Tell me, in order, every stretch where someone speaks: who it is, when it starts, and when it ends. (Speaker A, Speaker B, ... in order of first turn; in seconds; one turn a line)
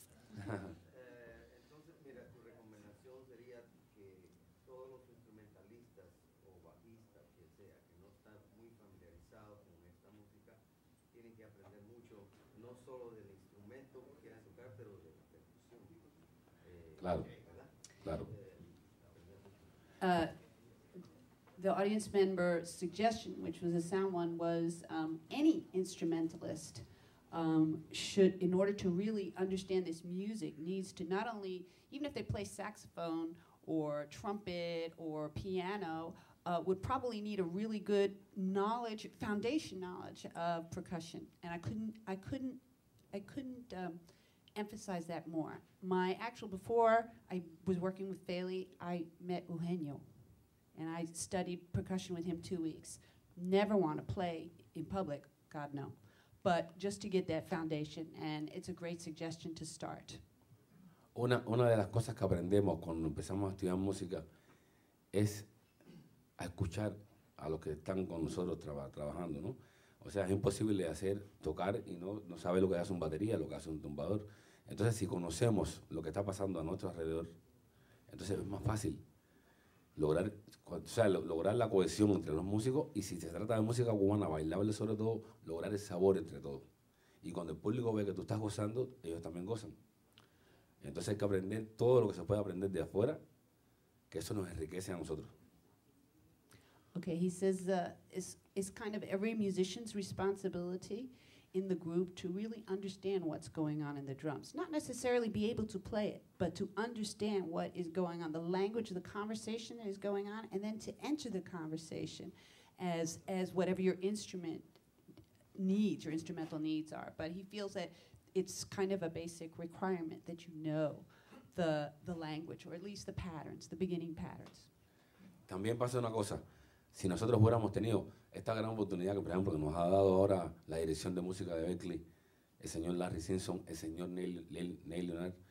Speaker A: 0.4-0.7
Speaker B: 0.7-10.6
Speaker B: 11.1-19.8
Speaker A: 17.0-17.3
Speaker A: 18.0-18.3
Speaker C: 20.0-20.3
Speaker C: 21.6-42.6
Speaker C: 43.1-44.0
Speaker C: 44.5-50.0
Speaker C: 50.7-60.2
Speaker A: 61.1-64.2
Speaker A: 65.1-65.5
Speaker A: 66.4-77.3
Speaker A: 78.1-79.0
Speaker A: 80.0-86.7
Speaker A: 87.2-89.8
Speaker A: 90.8-93.2
Speaker A: 94.1-95.3
Speaker C: 97.0-114.7
Speaker C: 115.5-124.7
Speaker A: 125.5-126.4
Speaker A: 126.9-132.0
Speaker A: 132.6-135.4